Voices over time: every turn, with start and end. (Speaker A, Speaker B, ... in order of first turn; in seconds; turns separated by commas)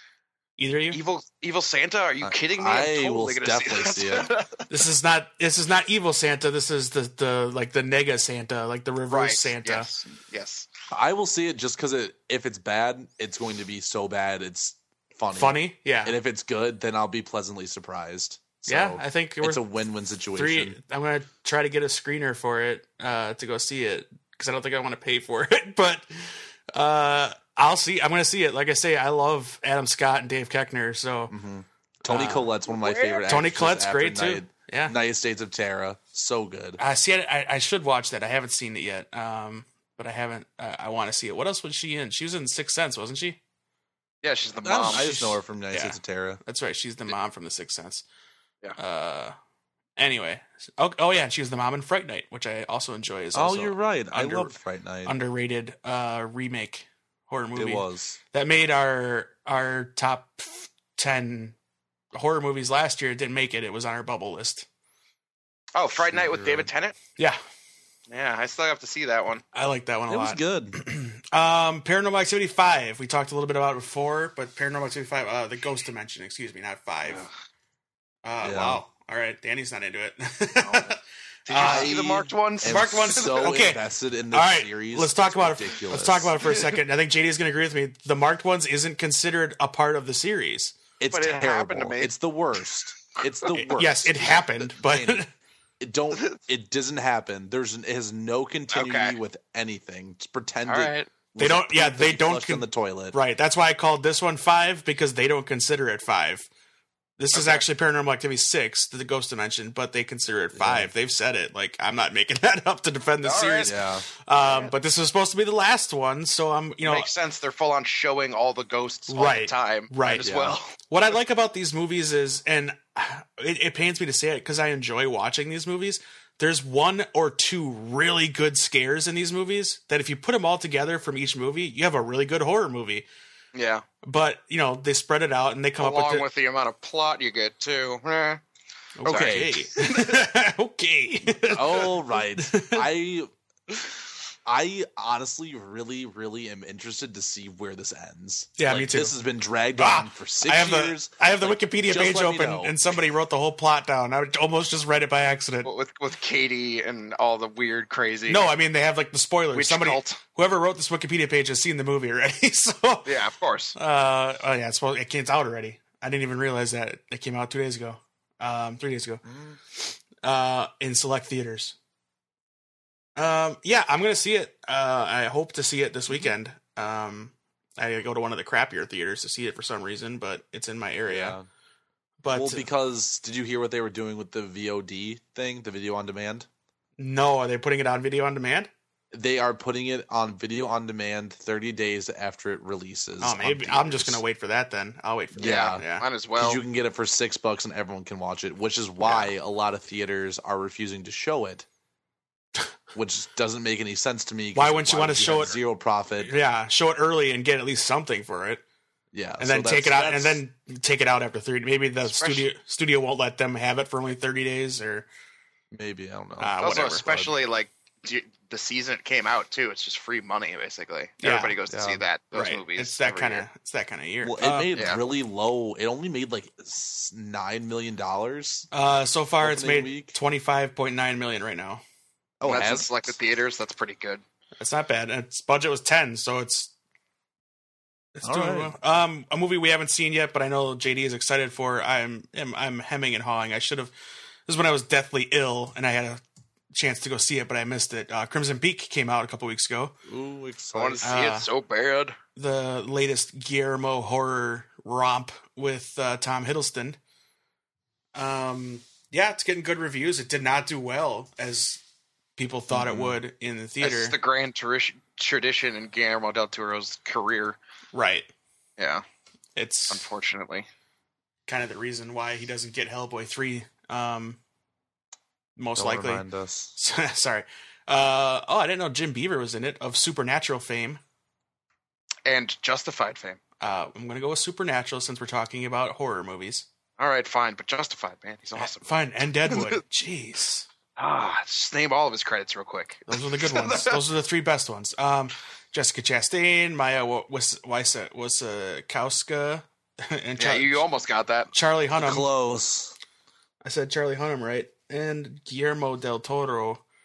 Speaker A: 0.6-1.0, Speaker B: 0.9-4.6, Speaker C: 2.2-4.3, Speaker A: 4.7-9.9, Speaker B: 9.1-10.7, Speaker C: 10.9-20.8, Speaker A: 15.3-16.1, Speaker A: 18.6-19.6, Speaker A: 20.3-31.3, Speaker C: 31.3-36.8, Speaker A: 32.0-32.5, Speaker B: 32.7-33.2, Speaker A: 33.2-34.9, Speaker A: 36.8-43.4, Speaker B: 44.2-45.0, Speaker C: 44.6-46.4, Speaker A: 44.9-48.0, Speaker A: 48.8-49.4, Speaker A: 50.0-61.5, Speaker C: 53.3-55.1, Speaker C: 57.5-58.2, Speaker A: 62.1-64.7, Speaker B: 65.7-66.9, Speaker C: 66.1-66.7, Speaker B: 68.1-69.4, Speaker A: 69.5-77.3, Speaker C: 70.1-70.8, Speaker A: 78.2-81.9, Speaker C: 78.4-78.8, Speaker B: 80.5-80.9, Speaker B: 81.5-83.4, Speaker C: 81.5-86.3, Speaker A: 82.6-90.8, Speaker C: 91.0-95.2, Speaker B: 91.1-92.1, Speaker A: 93.7-95.3, Speaker C: 95.8-103.2, Speaker B: 96.1-96.4, Speaker B: 98.7-99.2, Speaker B: 100.7-101.1, Speaker A: 101.4-106.5, Speaker A: 107.2-117.1, Speaker B: 107.3-107.6, Speaker C: 110.5-110.9, Speaker B: 113.2-113.7, Speaker C: 113.6-114.0, Speaker B: 114.3-114.7, Speaker B: 116.8-120.8, Speaker A: 119.1-120.3, Speaker C: 120.2-120.6, Speaker A: 120.8-133.1, Speaker B: 133.5-133.8, Speaker A: 134.0-136.2, Speaker B: 135.8-138.4, Speaker A: 138.9-142.8, Speaker C: 139.0-139.7, Speaker B: 139.1-140.2, Speaker C: 141.4-143.3, Speaker C: 144.4-152.7, Speaker A: 148.6-149.1, Speaker A: 149.7-155.7, Speaker B: 155.6-158.5, Speaker A: 158.3-163.1, Speaker B: 159.5-160.2, Speaker B: 163.0-163.7, Speaker A: 163.7-171.8, Speaker C: 169.2-169.6, Speaker A: 173.2-181.4, Speaker C: 181.1-181.4, Speaker A: 182.2-182.7, Speaker C: 182.3-186.5, Speaker A: 187.0-188.7, Speaker C: 189.1-194.2, Speaker A: 193.2-196.1, Speaker C: 195.3-195.8, Speaker B: 195.4-196.6, Speaker C: 196.4-201.7, Speaker C: 202.9-206.3, Speaker A: 204.5-205.6, Speaker A: 206.2-208.6, Speaker C: 209.1-210.4, Speaker A: 209.4-215.1, Speaker B: 212.0-212.5, Speaker C: 215.7-217.3, Speaker A: 216.4-217.1, Speaker B: 216.6-223.4, Speaker A: 221.2-221.6, Speaker C: 221.7-222.0, Speaker A: 222.3-224.7, Speaker C: 224.2-228.7, Speaker B: 224.7-225.0, Speaker A: 228.7-231.8, Speaker C: 229.4-230.1, Speaker C: 232.4-233.1, Speaker B: 232.4-234.2, Speaker A: 234.6-236.7, Speaker A: 238.1-243.9, Speaker C: 238.2-238.7, Speaker A: 244.4-249.9, Speaker C: 250.1-251.0, Speaker B: 250.7-252.2, Speaker A: 251.0-251.5, Speaker A: 252.3-257.0, Speaker A: 258.1-261.8, Speaker A: 262.4-264.1, Speaker C: 262.7-263.2, Speaker B: 263.8-267.6, Speaker A: 267.9-268.3, Speaker B: 268.8-269.0, Speaker A: 269.6-270.1, Speaker B: 269.9-270.6, Speaker A: 271.5-274.4, Speaker A: 275.6-276.2, Speaker C: 275.8-276.7, Speaker A: 276.8-281.0, Speaker B: 282.2-283.4, Speaker A: 283.6-286.7, Speaker B: 287.0-288.9, Speaker A: 288.6-290.7, Speaker B: 289.5-289.8, Speaker B: 291.0-294.0, Speaker A: 293.1-300.8, Speaker B: 300.4-301.5, Speaker A: 301.5-302.3, Speaker C: 301.9-302.9, Speaker A: 303.6-306.8